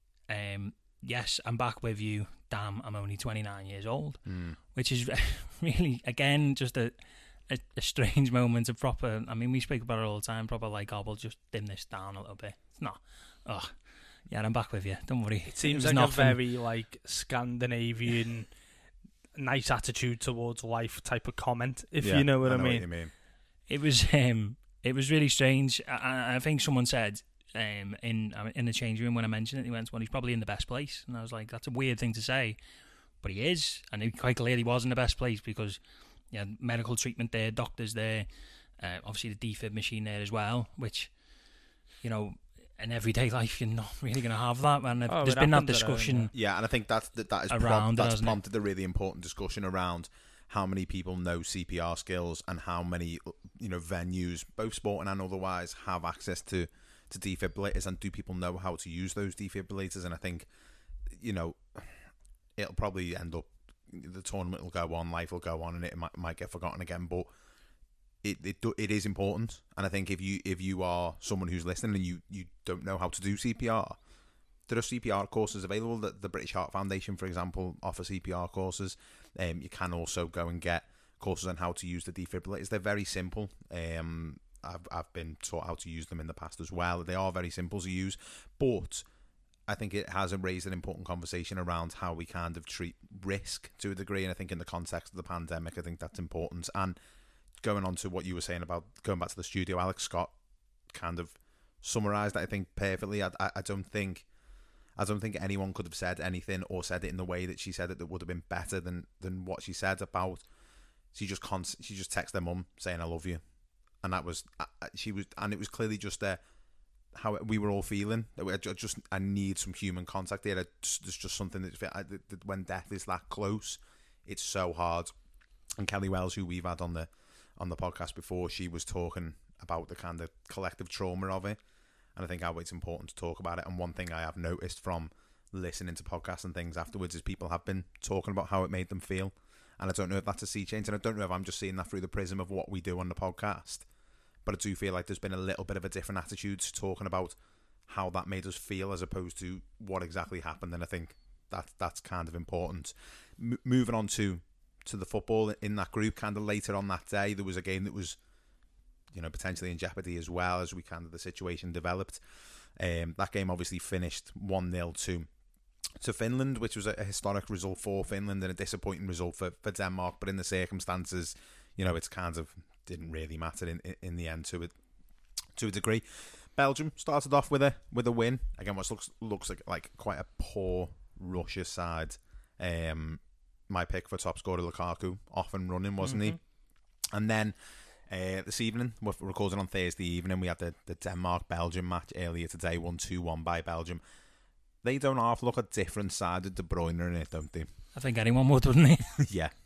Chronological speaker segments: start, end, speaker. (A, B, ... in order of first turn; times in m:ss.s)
0:00.3-0:04.2 A
0:04.3-0:04.6 B
0:04.7-0:07.0 A
0:07.5-0:13.7 A
0:14.3-0:16.4 A
0:15.5-0:18.5 C
0:19.4-0:22.9 C
0:22.0-0:23.1 B
0:23.7-0:32.6 A
0:33.2-0:35.8 A
0:36.3-0:38.3 A
0:38.8-0:41.1 A
0:42.0-0:46.3 A
0:45.1-0:46.3 C
0:46.3-1:00.5 B
0:47.5-0:48.4 A
1:01.1-1:02.0 B
1:02.6-1:07.3 B
1:08.2-1:14.0 B
1:14.7-1:29.0 B
1:29.7-1:37.0 B
1:37.6-1:40.3 B
1:40.9-1:44.3 B
1:45.0-1:50.4 B
1:51.1-1:53.4 B
1:54.0-1:56.4 B
1:57.1-2:05.1 B
2:05.8-2:11.6 B
2:12.2-2:23.9 B
2:24.4-2:27.4 B
2:27.9-2:38.2 B
2:39.1-2:42.2 B
2:42.8-2:45.3 B
2:46.0-2:54.7 B
2:55.5-3:06.4 B
3:06.0-3:06.4 C
3:07.0-3:07.6 B
3:08.1-3:14.0 B
3:14.8-3:17.7 B
3:18.0-3:19.2 A
3:19.3-3:19.5 B